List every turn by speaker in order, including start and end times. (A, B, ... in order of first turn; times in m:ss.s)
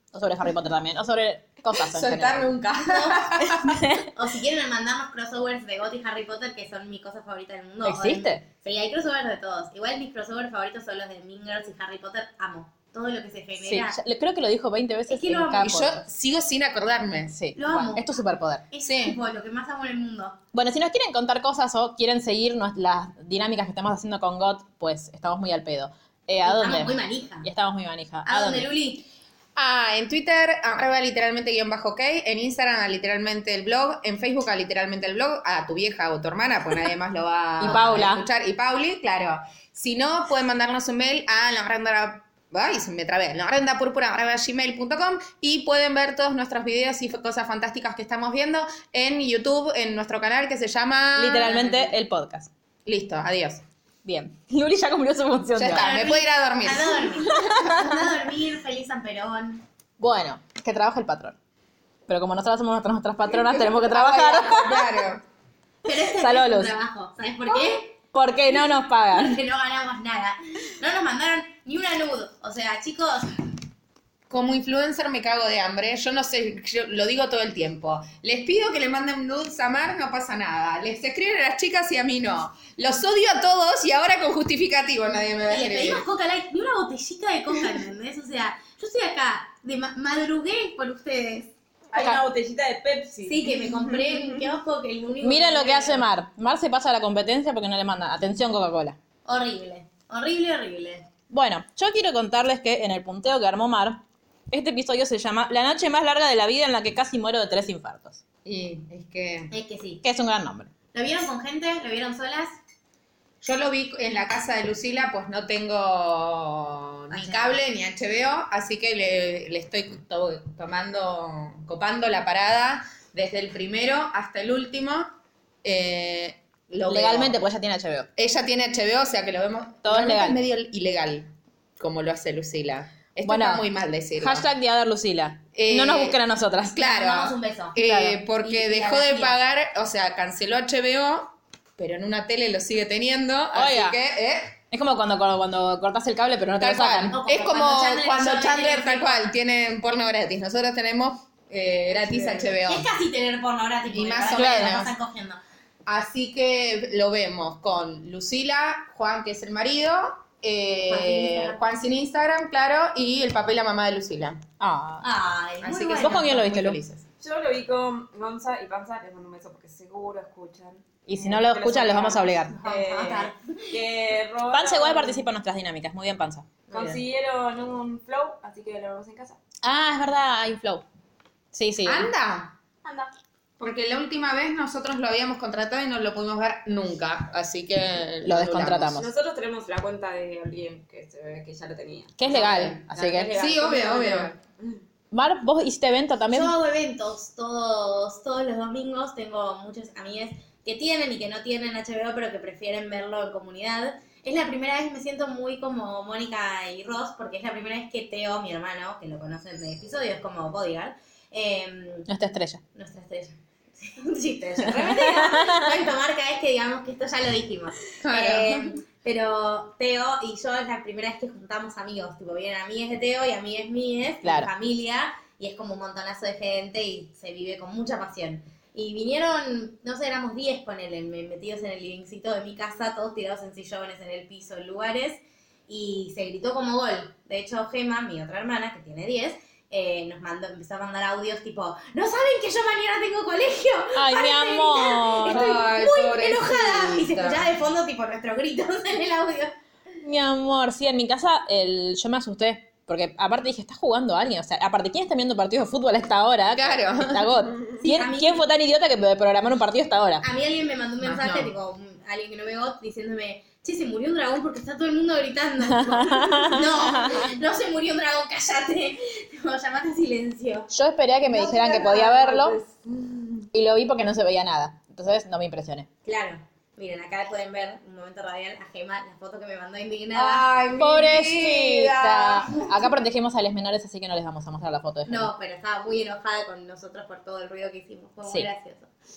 0:00.1-0:02.5 A
0:01.7-0:04.0 B
0:02.8-0:03.3 C
0:03.5-0:04.0 A
0:04.1-0:14.0 C
0:07.8-0:08.4 A
0:13.6-0:16.0 A
0:15.1-0:15.7 C
0:15.6-0:17.4 B
0:17.3-0:18.6 A
0:17.6-0:18.1 C
0:18.7-0:20.4 C
0:18.8-0:19.2 B
0:20.5-0:28.7 A
0:26.4-0:27.5 C
0:28.2-0:29.0 C
0:29.6-0:51.9 B
0:37.6-0:38.2 A
0:51.2-0:52.5 A
0:52.9-0:53.6 B
0:54.0-0:55.9 A
0:55.6-0:57.4 B
0:55.7-0:59.6 C
0:57.3-0:58.0 A
1:00.0-1:01.4 A
1:02.1-1:05.0 A
1:03.2-1:05.2 B
1:05.9-1:07.9 C
1:05.9-1:06.7 A
1:07.6-1:09.4 A
1:08.5-1:13.3 C
1:14.3-1:26.0 B
1:25.5-1:31.5 C
1:31.9-1:34.3 D
1:31.9-1:32.2 A
1:33.2-1:36.1 C
1:35.2-1:39.0 A
1:39.2-1:41.1 C
1:41.3-1:48.2 A
1:48.4-1:49.5 B
1:49.5-1:50.0 C
1:50.0-1:50.7 A
1:50.9-1:52.6 C
1:53.4-2:05.1 B
1:57.1-1:57.6 C
2:05.6-2:07.4 B
2:06.9-2:08.1 A
2:08.2-2:14.5 B
2:09.8-2:10.4 A
2:13.3-2:13.6 A
2:14.2-2:17.0 A
2:15.5-2:16.2 B
2:16.7-2:24.5 B
2:16.8-2:17.8 C
2:17.8-2:18.2 A
2:18.3-2:19.4 C
2:23.5-2:24.0 A
2:24.7-2:27.2 A
2:26.6-2:32.9 B
2:27.1-2:29.3 C
2:31.9-2:32.5 D
2:32.6-2:35.4 C
2:33.9-2:34.9 B
2:34.3-2:34.9 A
2:35.9-2:44.4 B
2:40.9-2:41.6 C
2:44.6-2:45.0 A
2:45.0-2:46.5 C
2:45.6-2:47.0 B
2:46.0-2:46.8 A
2:47.2-2:55.3 D
2:51.1-2:52.6 A
2:52.6-2:53.7 C
2:54.5-2:56.5 A
2:56.7-2:57.0 C
2:56.7-2:59.4 D
2:59.6-3:00.8 A
3:01.5-3:02.1 A
3:01.8-3:02.5 B
3:02.8-3:03.1 D
3:03.6-3:09.0 B
3:08.2-3:09.1 A
3:09.0-3:14.8 D
3:12.2-3:13.3 A
3:13.3-3:14.3 B
3:15.1-3:16.5 A
3:16.3-3:32.1 C
3:32.1-3:32.6 A
3:32.8-4:09.5 C
3:34.8-3:35.6 A
3:38.0-3:38.8 B
3:44.2-3:44.5 A
4:04.0-4:05.5 A
4:05.2-4:07.5 B
4:10.0-4:20.2 A
4:16.6-4:17.4 B
4:17.8-4:18.4 C
4:20.2-4:30.7 C
4:21.0-4:21.5 B
4:25.6-4:27.3 A
4:30.7-4:32.6 A
4:31.3-4:33.5 D
4:33.5-4:35.9 A
4:36.0-4:40.5 C
4:40.1-4:42.9 B
4:40.8-4:45.3 A
4:45.0-4:48.9 C